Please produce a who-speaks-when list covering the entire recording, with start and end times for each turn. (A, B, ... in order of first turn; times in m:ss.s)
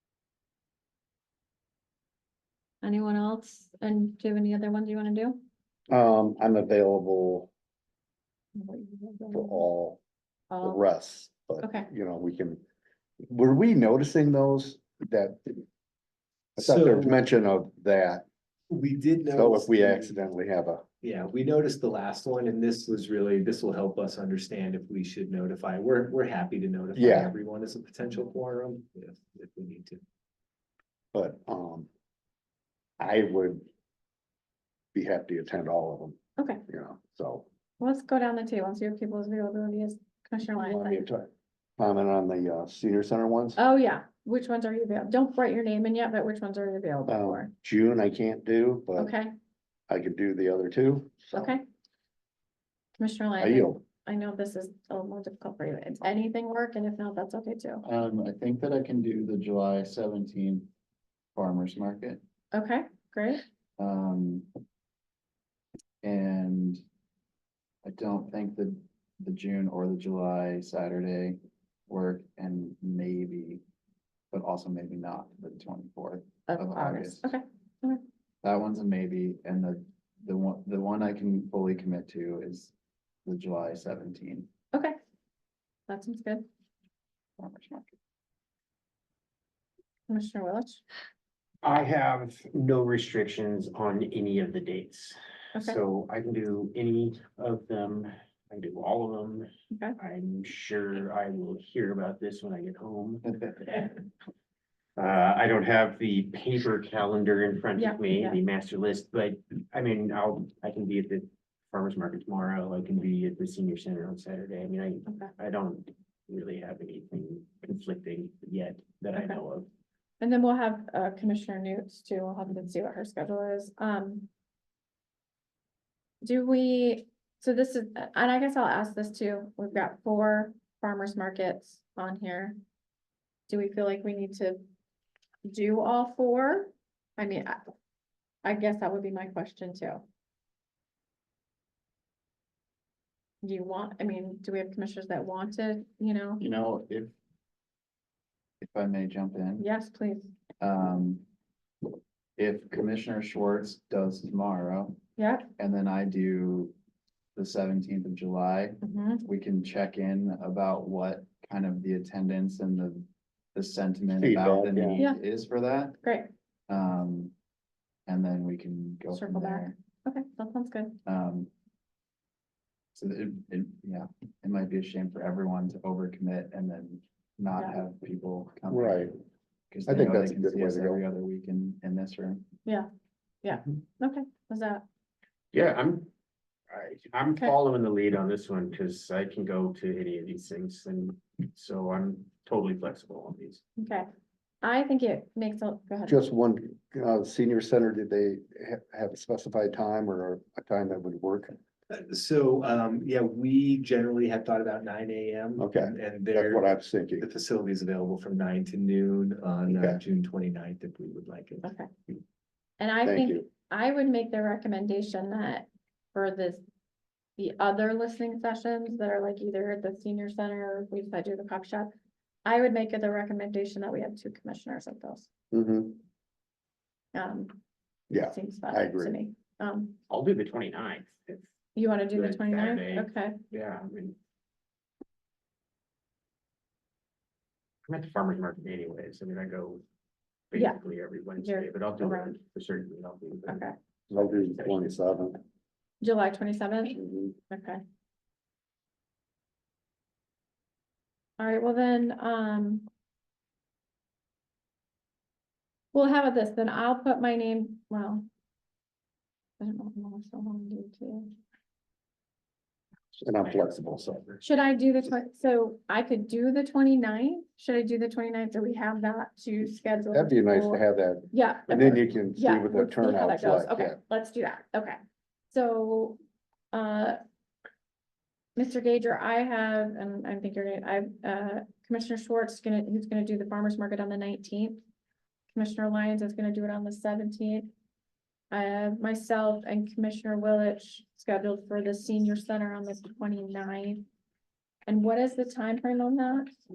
0:02.8-0:05.4 A
0:05.9-0:07.5 B
0:08.6-0:09.6 A
0:09.3-0:10.0 B
0:10.5-0:10.8 A
0:10.6-0:12.6 B
0:11.6-0:11.9 A
0:13.2-0:15.6 B
0:16.6-0:17.2 C
0:16.6-0:18.2 B
0:18.7-0:20.2 C
0:19.3-0:20.8 B
0:21.0-0:30.0 C
0:27.0-0:27.3 B
0:31.1-0:31.9 B
0:33.0-0:33.7 B
0:34.9-0:37.5 B
0:36.4-0:36.6 A
0:37.8-0:41.0 A
0:40.6-0:43.6 B
0:43.6-0:47.5 A
0:47.0-0:49.1 B
0:49.0-0:49.3 A
0:49.9-0:51.4 B
0:51.3-0:51.6 A
0:53.0-0:57.8 A
0:53.4-0:53.8 B
0:57.8-1:00.7 D
1:01.4-1:02.2 D
1:02.5-1:03.4 A
1:03.8-1:04.5 D
1:06.0-1:06.8 D
1:07.8-1:13.6 D
1:14.3-1:17.3 D
1:16.5-1:18.0 A
1:18.4-1:22.7 D
1:23.2-1:24.5 D
1:25.9-1:26.5 A
1:27.4-1:27.9 D
1:30.1-1:30.8 A
1:31.6-1:43.9 E
1:39.7-1:40.0 A
1:45.0-1:59.7 E
1:47.8-1:48.4 A
2:00.2-2:04.3 A
2:06.2-2:12.6 A
2:13.5-2:14.6 A
2:15.4-2:17.7 A
2:18.4-2:20.0 A
2:23.4-2:26.4 A
2:26.4-2:27.1 D
2:28.6-2:29.7 D
2:29.6-2:30.3 A
2:30.6-2:31.2 D
2:32.4-2:35.0 D
2:35.2-2:35.5 A
2:35.6-2:36.7 D
2:37.4-2:46.0 D
2:38.8-2:39.2 A
2:44.2-2:45.0 B
2:46.0-2:46.3 A
2:46.7-2:47.3 D
2:48.1-2:49.7 D
2:49.1-2:50.9 A
2:51.0-2:51.5 D
2:52.9-2:59.2 D
2:58.7-2:59.1 B
2:59.7-3:02.4 D
2:59.9-3:01.0 B
3:03.4-3:04.8 A
3:05.5-3:06.1 E
3:06.7-3:13.6 E
3:13.8-3:14.1 A
3:14.6-3:16.2 A
3:16.0-3:21.6 B
3:21.9-3:26.7 C
3:25.6-3:27.2 B
3:27.2-3:31.7 C
3:29.7-3:30.0 B
3:31.6-3:31.9 A
3:32.8-3:36.6 A
3:33.0-3:33.4 B
3:37.4-3:41.9 A
3:42.4-3:45.3 A
3:45.5-3:46.0 B
3:47.1-3:47.6 A
3:48.1-3:49.2 B
3:48.2-3:50.0 A
3:50.1-3:51.5 E
3:51.7-3:53.4 A
3:52.1-3:54.2 E
3:57.9-3:59.8 E
4:00.5-4:04.9 E
4:01.4-4:02.4 A
4:03.4-4:03.7 A
4:04.1-4:05.4 B
4:06.0-4:07.8 A
4:06.9-4:07.3 B
4:11.4-4:12.9 A
4:15.9-4:18.3 A
4:19.6-4:21.3 A
4:23.2-4:24.2 B
4:23.4-4:24.4 E
4:24.4-4:35.0 A
4:30.1-4:34.0 B
4:35.5-4:36.2 A
4:36.7-4:37.2 A
4:38.6-4:44.8 A
4:45.5-4:47.7 A
4:48.5-4:54.0 A
4:54.9-4:56.5 A